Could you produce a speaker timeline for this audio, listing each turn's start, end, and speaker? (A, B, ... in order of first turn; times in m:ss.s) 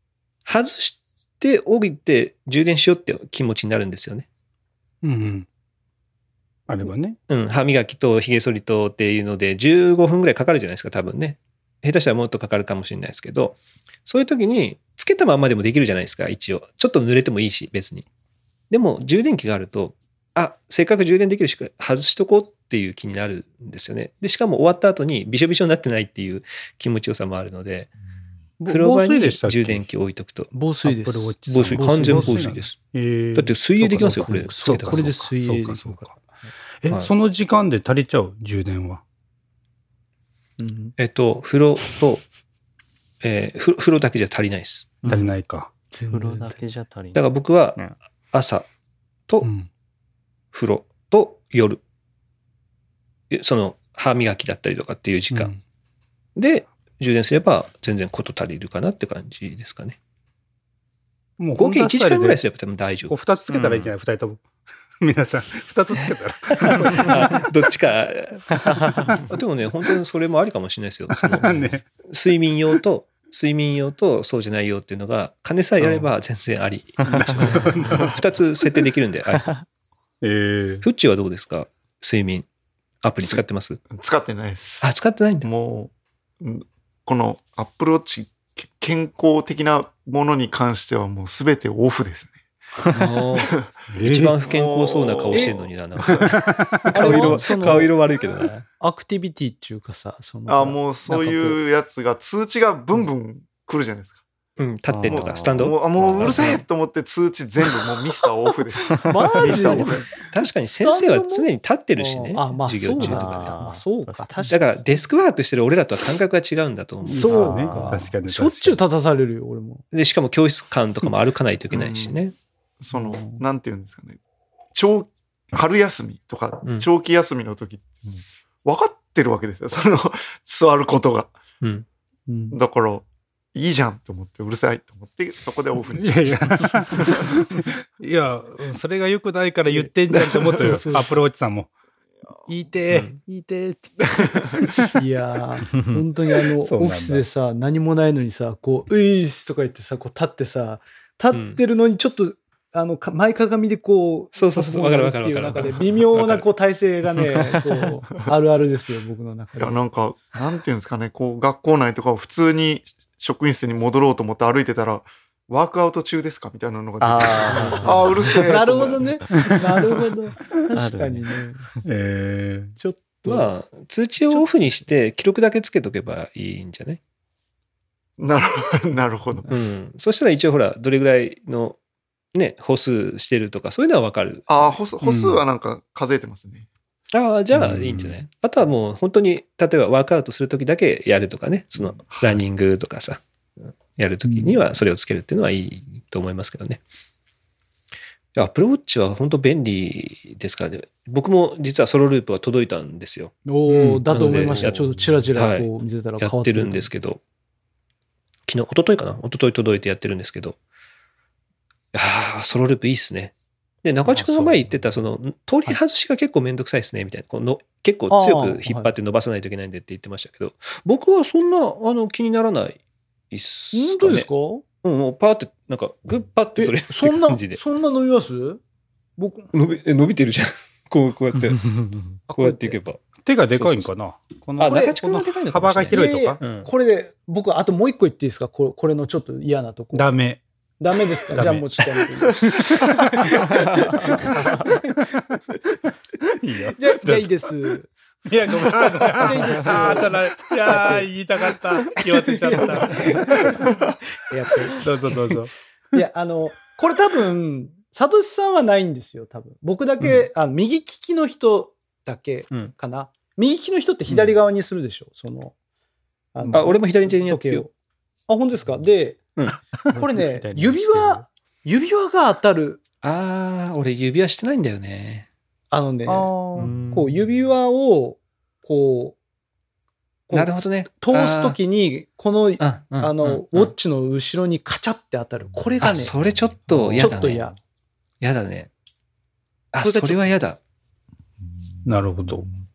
0:00.4-0:04.3 A
0:05.0-0:05.4 B
0:06.7-0:07.2 B
0:07.3-0:18.0 A
0:18.7-0:27.9 A
0:28.6-0:30.5 A
0:28.6-0:29.8 B
0:30.5-0:32.6 C
0:30.8-0:36.2 B
0:31.5-0:32.8 A
0:33.3-0:35.1 A
0:33.9-0:36.2 C
0:36.8-0:39.0 B
0:40.6-0:40.9 C
0:41.0-0:42.2 A
0:43.2-0:45.0 A
0:45.0-0:45.3 D
0:45.0-0:45.7 B
0:45.9-0:46.6 C
0:46.1-0:47.9 D
0:47.1-0:47.8 A
0:48.3-0:48.7 A
0:49.4-0:49.7 B
0:50.5-0:51.8 A
0:53.3-0:55.5 A
0:55.3-0:55.6 B
0:56.4-1:00.0 A
1:01.4-1:02.4 B
1:01.5-1:03.2 A
1:03.0-1:04.5 B
1:03.5-1:03.9 D
1:05.0-1:07.3 B
1:06.7-1:08.6 A
1:08.7-1:09.1 D
1:09.2-1:19.5 A
1:11.2-1:11.8 B
1:17.0-1:17.6 D
1:17.5-1:18.1 E
1:17.6-1:17.9 B
1:19.3-1:19.6 D
1:20.2-1:20.8 B
1:20.8-1:22.4 A
1:23.0-1:23.8 A
1:23.2-1:33.8 E
1:24.8-1:25.5 A
1:32.9-1:33.5 A
1:33.9-1:34.4 B
1:34.0-1:38.6 A
1:34.4-1:35.7 E
1:36.0-1:37.2 B
1:36.9-1:37.9 C
1:38.8-1:41.6 C
1:40.5-1:44.2 E
1:44.6-1:46.6 A
1:44.9-1:46.6 D
1:45.0-1:50.2 E
1:49.0-1:50.0 C
1:50.2-1:53.5 A
1:50.6-1:54.9 C
1:52.7-1:54.3 D
1:54.5-1:57.6 A
1:57.0-1:59.8 C
1:57.1-1:58.8 B
1:57.3-1:57.8 D
1:59.9-2:02.3 A
2:01.7-2:02.2 E
2:02.8-2:04.2 E
2:02.9-2:03.4 C
2:04.7-2:11.3 E
2:12.3-2:12.6 C
2:12.5-2:17.4 E
2:16.0-2:21.7 B
2:20.1-2:20.8 E
2:20.5-2:21.1 C
2:22.4-2:24.9 B
2:22.9-2:23.2 A
2:24.9-2:39.8 C
2:26.6-2:27.2 B
2:31.3-2:31.6 A
2:34.3-2:36.4 A
2:39.6-2:49.2 E
2:47.0-2:48.4 D
2:47.5-2:51.6 C
2:50.7-2:51.8 D
2:51.8-2:52.8 B
2:52.8-2:53.5 C
2:53.2-2:57.0 A
2:54.3-2:54.6 C
2:58.2-2:59.5 E
2:59.5-3:01.8 A
3:02.3-3:04.8 A
3:04.5-3:06.7 E
3:05.0-3:05.4 B
3:07.1-3:13.2 A
3:07.5-3:08.2 B
3:12.1-3:12.4 E
3:13.7-3:16.8 A
3:14.3-3:14.6 C
3:18.3-3:23.3 A
3:23.4-3:26.9 C
3:23.7-3:24.3 B
3:24.1-3:24.8 A
3:25.4-3:27.2 A
3:28.5-3:30.6 A
3:31.9-3:42.8 A
3:38.1-3:38.9 C
3:43.3-3:44.3 A
3:43.7-3:44.6 C
3:44.8-3:47.6 A
3:46.6-3:48.6 C
3:49.2-3:49.5 C
3:49.5-3:51.6 A
3:52.3-3:52.8 C
3:52.3-3:53.9 A
3:53.2-3:56.4 B
3:54.6-3:56.7 A
3:54.6-3:54.9 C
3:55.9-4:00.1 C
3:59.9-4:00.4 B
4:00.8-4:05.1 C
4:01.3-4:01.8 B
4:02.7-4:05.4 B
4:06.3-4:07.4 B
4:06.8-4:07.9 C
4:08.3-4:13.5 B
4:08.7-4:11.1 C
4:11.9-4:13.7 C
4:14.3-4:15.3 C
4:14.8-4:15.5 B
4:15.9-4:25.5 C
4:26.3-4:27.7 C
4:26.4-4:26.7 B
4:26.5-4:27.7 A
4:28.3-4:29.2 C
4:29.9-4:31.2 D
4:29.9-4:32.8 C
4:33.0-4:35.3 A
4:35.7-4:39.2 C
4:36.1-4:36.8 B
4:36.6-4:37.2 D
4:40.3-4:46.2 C
4:40.3-4:41.6 A
4:42.6-4:43.7 A
4:45.8-4:47.5 A
4:47.0-4:47.5 C
4:48.2-4:48.7 A
4:49.7-4:50.6 A
4:49.8-4:50.2 C
4:51.8-4:52.5 B